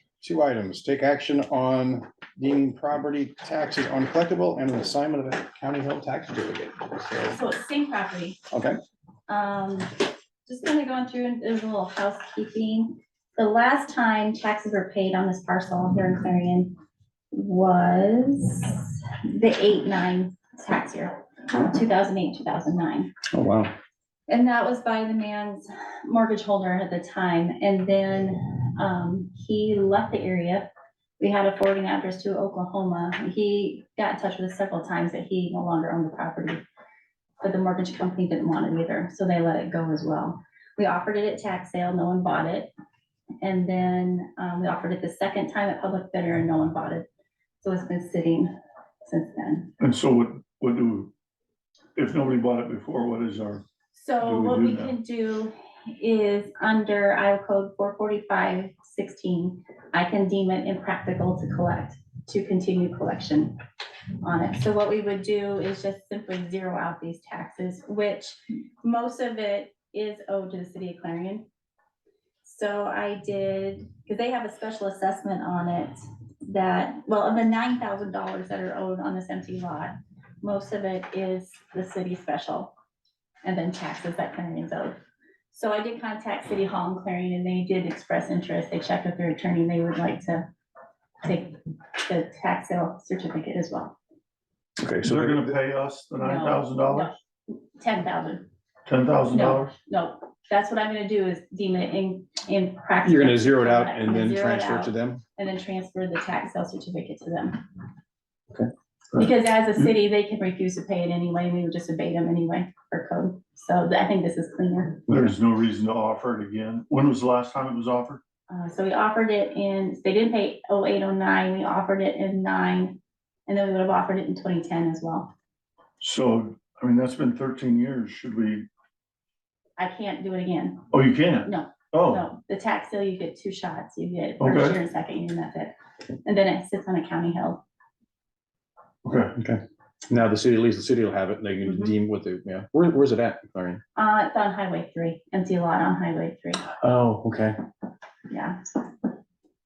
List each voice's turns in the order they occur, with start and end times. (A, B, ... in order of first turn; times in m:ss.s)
0:00.2-0:07.4 A
0:07.3-0:08.4 B
0:08.5-0:08.8 A
0:09.3-0:16.8 B
0:17.3-0:23.1 B
0:23.3-0:23.7 A
0:24.3-0:36.6 B
0:37.4-0:42.7 B
0:43.4-0:47.1 B
0:47.6-0:48.5 B
0:49.0-0:49.7 B
0:49.8-0:51.1 C
0:52.0-0:53.6 C
0:53.9-1:03.6 B
0:54.2-0:55.0 C
1:04.2-1:11.5 B
1:12.4-1:22.7 B
1:23.4-1:25.0 B
1:25.5-1:30.5 B
1:31.2-1:34.0 B
1:34.8-1:35.5 A
1:35.0-1:37.1 C
1:36.2-1:38.5 B
1:38.8-1:39.7 C
1:39.3-1:47.6 B
1:43.0-1:45.2 A
1:49.1-1:55.1 B
1:55.1-1:58.2 C
1:58.5-2:05.3 B
2:06.0-2:08.7 C
2:09.8-2:10.9 B
2:10.9-2:12.2 C
2:11.4-2:17.6 B
2:14.4-2:14.8 C
2:19.0-2:19.4 C
2:19.4-2:23.8 A
2:21.7-2:21.9 B
2:24.0-2:26.6 B
2:26.8-2:27.6 A
2:28.3-2:28.6 B